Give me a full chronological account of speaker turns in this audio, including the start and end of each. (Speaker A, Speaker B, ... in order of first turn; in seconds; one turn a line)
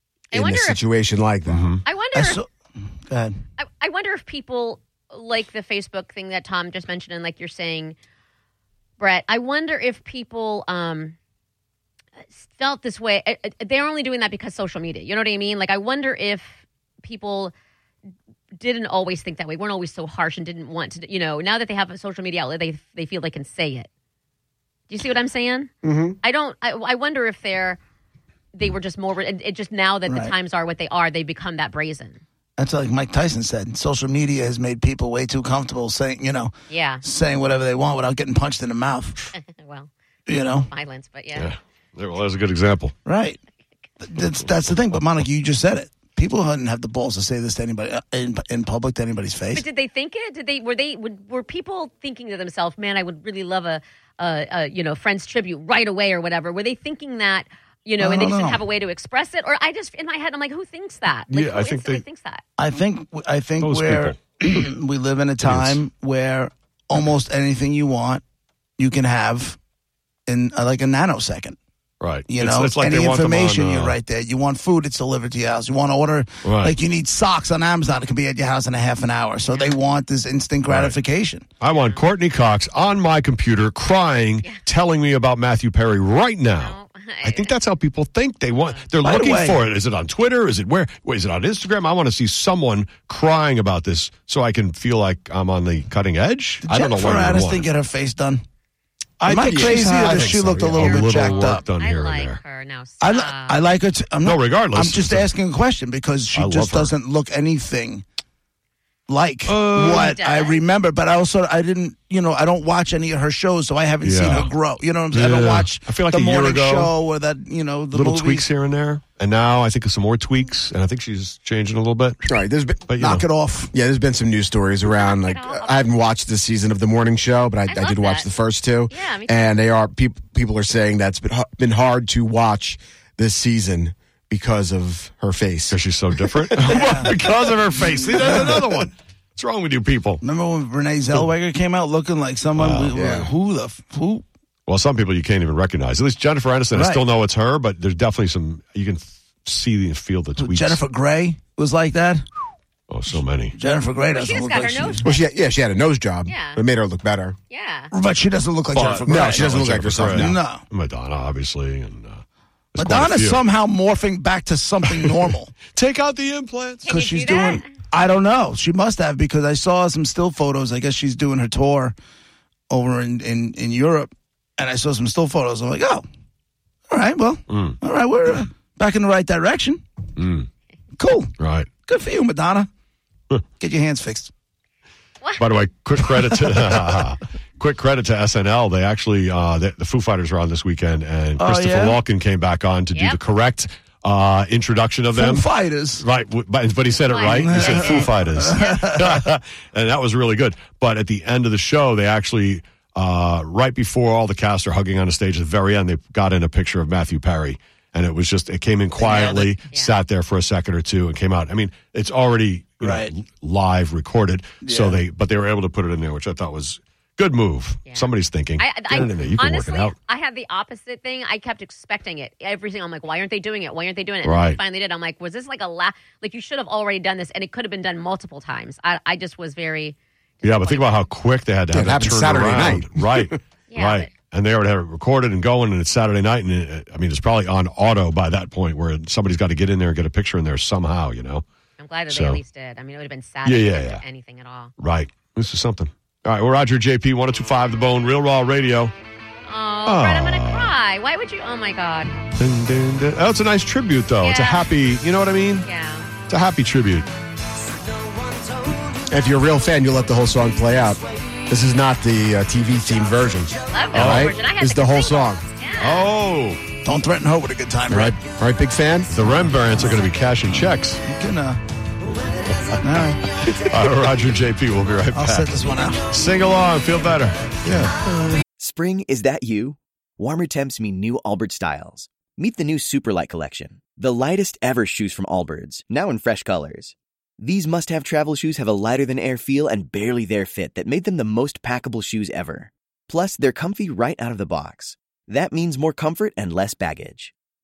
Speaker A: 0.3-0.8
Speaker B: 0.3-1.7
Speaker C: 1.5-1.8
Speaker A: 1.8-2.4
Speaker D: 2.1-2.5
Speaker D: 3.1-3.4
Speaker A: 3.6-8.0
Speaker A: 9.0-11.2
Speaker A: 12.3-17.5
Speaker A: 18.5-23.9
Speaker A: 24.9-25.7
Speaker B: 25.8-26.2
Speaker A: 26.2-27.8
Speaker A: 28.5-32.2
Speaker D: 30.1-30.3
Speaker D: 32.6-39.3
Speaker A: 36.7-37.0
Speaker A: 39.3-41.5
Speaker D: 40.3-40.7
Speaker C: 41.3-43.0
Speaker D: 43.0-43.4
Speaker D: 44.0-49.6
Speaker A: 49.5-62.4
Speaker D: 58.0-58.6
Speaker C: 61.3-62.0
Speaker D: 62.6-68.2
Speaker C: 63.6-64.2
Speaker C: 65.4-65.8
Speaker D: 68.8-69.6
Speaker D: 70.3-71.5
Speaker C: 72.0-74.0
Speaker D: 72.3-81.4
Speaker C: 76.4-76.8
Speaker A: 79.4-79.8
Speaker C: 80.7-81.0
Speaker C: 81.6-97.7
Speaker A: 81.6-82.0
Speaker A: 86.5-87.5
Speaker D: 89.0-89.6
Speaker D: 96.6-98.4
Speaker C: 99.2-102.4
Speaker B: 99.3-100.4
Speaker D: 99.3-101.6
Speaker A: 100.7-103.7
Speaker D: 103.0-108.0
Speaker C: 104.2-105.3
Speaker C: 106.3-106.9
Speaker D: 109.1-118.5
Speaker C: 109.5-110.1
Speaker A: 109.8-110.6
Speaker C: 114.0-114.5
Speaker C: 115.1-116.9
Speaker C: 117.9-122.2
Speaker B: 122.2-122.9
Speaker C: 122.9-123.3
Speaker D: 123.0-123.7
Speaker B: 123.7-137.0
Speaker A: 124.8-125.9
Speaker A: 127.7-128.3
Speaker A: 128.9-129.5
Speaker C: 135.7-140.2
Speaker D: 136.7-137.1
Speaker D: 138.3-138.6
Speaker D: 140.2-144.2
Speaker C: 142.5-143.0
Speaker B: 142.9-143.3
Speaker C: 144.7-150.8
Speaker D: 146.7-147.0
Speaker D: 150.4-152.2
Speaker C: 152.9-153.5
Speaker D: 153.5-155.1
Speaker A: 154.1-155.1
Speaker B: 155.0-157.4
Speaker A: 156.2-156.6
Speaker A: 157.5-157.9
Speaker D: 157.9-159.5
Speaker C: 158.7-162.2
Speaker B: 159.0-160.4
Speaker D: 160.1-160.6
Speaker C: 162.7-163.4
Speaker D: 162.8-165.5
Speaker C: 164.8-165.2
Speaker C: 165.7-166.9
Speaker A: 166.8-167.7
Speaker D: 166.9-171.9
Speaker D: 172.7-176.0
Speaker D: 176.9-179.8
Speaker C: 177.5-177.8
Speaker C: 180.2-180.5
Speaker D: 181.0-181.3
Speaker C: 181.4-181.7
Speaker D: 181.8-182.7
Speaker D: 183.6-184.3
Speaker C: 185.4-219.9
Speaker D: 191.4-192.0
Speaker A: 192.9-193.2
Speaker D: 195.1-196.0
Speaker A: 197.1-198.9
Speaker D: 197.4-199.2
Speaker D: 209.0-209.5
Speaker A: 209.7-210.0
Speaker D: 212.8-213.1
Speaker D: 214.6-215.0
Speaker A: 217.9-231.0
Speaker C: 224.2-224.6
Speaker C: 230.4-241.4
Speaker B: 231.7-233.4
Speaker A: 233.7-234.1
Speaker A: 241.8-244.7
Speaker C: 242.1-242.4
Speaker C: 243.4-244.0
Speaker C: 244.8-248.9
Speaker A: 249.4-252.1
Speaker C: 249.8-250.7
Speaker C: 252.3-255.6
Speaker A: 254.2-254.7
Speaker A: 255.6-256.1
Speaker C: 256.3-257.1
Speaker B: 259.1-265.4
Speaker A: 263.7-266.1
Speaker C: 263.9-264.3
Speaker C: 265.8-266.6
Speaker D: 266.8-268.1
Speaker C: 267.9-268.2
Speaker B: 268.2-269.1
Speaker C: 269.1-271.0
Speaker D: 270.5-271.6
Speaker C: 272.7-278.4
Speaker D: 272.8-273.2
Speaker D: 275.1-276.0
Speaker E: 278.6-297.3